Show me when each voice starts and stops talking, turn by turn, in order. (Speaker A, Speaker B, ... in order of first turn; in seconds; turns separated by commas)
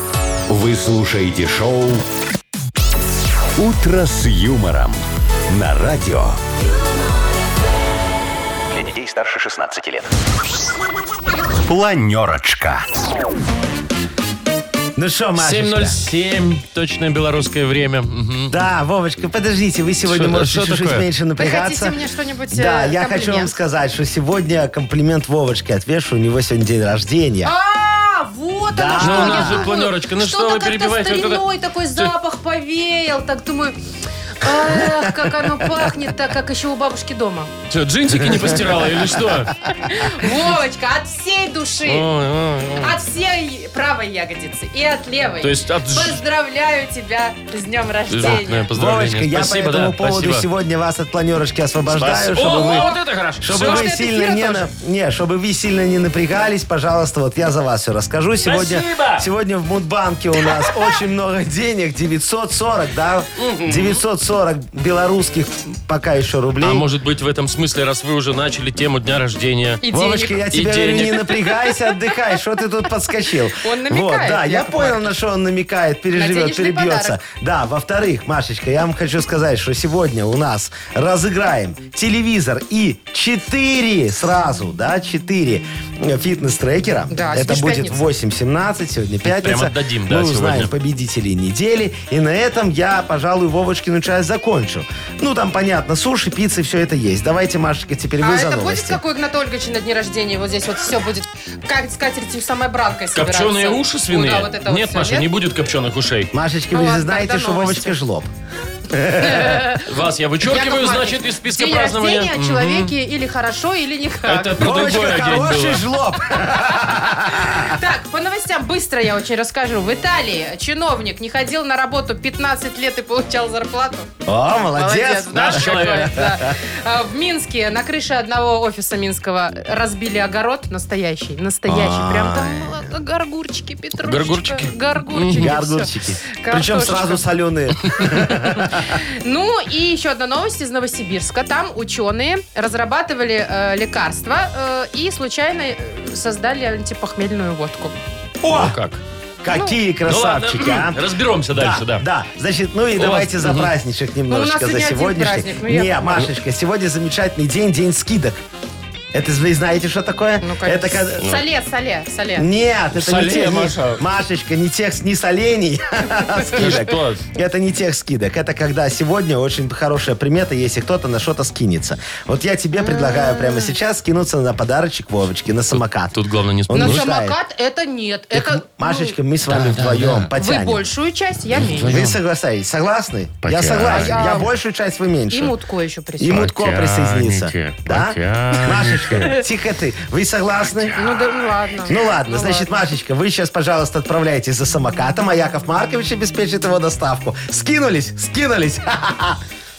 Speaker A: 0.5-2.0, Speaker A: 3.6-6.4, Speaker A: 8.7-10.1, Speaker A: 11.6-12.8, Speaker B: 14.9-15.9, Speaker C: 15.3-18.5, Speaker B: 18.5-21.9, Speaker C: 20.0-21.0, Speaker D: 21.4-23.5, Speaker B: 22.5-27.5, Speaker D: 27.4-33.8, Speaker B: 28.7-29.7, Speaker C: 29.0-32.1, Speaker D: 34.4-37.5, Speaker B: 34.9-35.6, Speaker C: 37.7-39.6, Speaker D: 39.7-42.1, Speaker C: 41.9-43.0, Speaker D: 42.8-48.7, Speaker C: 45.4-46.2, Speaker C: 48.1-50.5, Speaker B: 48.7-66.8, Speaker C: 51.9-53.9, Speaker D: 52.5-54.7, Speaker C: 58.4-59.3, Speaker C: 63.4-64.0, Speaker C: 66.6-71.3, Speaker D: 69.8-70.4, Speaker B: 69.9-99.0, Speaker D: 71.3-71.8, Speaker D: 73.6-75.1, Speaker D: 76.1-77.2, Speaker D: 87.1-88.1, Speaker C: 89.2-90.7, Speaker D: 98.2-105.3, Speaker C: 103.1-106.3, Speaker B: 106.3-108.3, Speaker D: 106.7-108.0, Speaker B: 108.9-109.6, Speaker D: 109.2-109.9, Speaker C: 109.8-112.9, Speaker D: 110.4-114.5, Speaker C: 114.2-115.9, Speaker B: 114.5-117.8, Speaker D: 116.5-124.1, Speaker B: 124.2-126.5, Speaker D: 124.7-137.2, Speaker C: 125.3-126.1, Speaker B: 131.7-132.9, Speaker C: 134.0-135.5, Speaker B: 135.3-138.9, Speaker D: 138.0-147.9, Speaker B: 148.4-148.8, Speaker C: 148.5-149.0, Speaker B: 149.4-158.4, Speaker D: 149.5-149.8, Speaker C: 150.1-152.0, Speaker C: 152.9-153.7, Speaker D: 154.3-156.2, Speaker B: 159.1-161.4, Speaker D: 160.4-162.5, Speaker B: 162.3-176.2, Speaker C: 162.9-164.0, Speaker C: 166.6-167.2, Speaker D: 172.8-173.7, Speaker C: 175.7-177.1, Speaker B: 176.7-177.3, Speaker D: 176.7-179.2, Speaker B: 178.3-180.8, Speaker C: 179.4-180.3, Speaker D: 180.4-181.9, Speaker C: 181.6-182.2, Speaker B: 181.8-185.5, Speaker C: 183.4-184.4, Speaker D: 183.9-184.5, Speaker D: 185.3-186.4, Speaker B: 186.2-191.2, Speaker C: 186.3-189.4, Speaker C: 190.9-191.3, Speaker D: 190.9-192.7, Speaker B: 191.8-199.4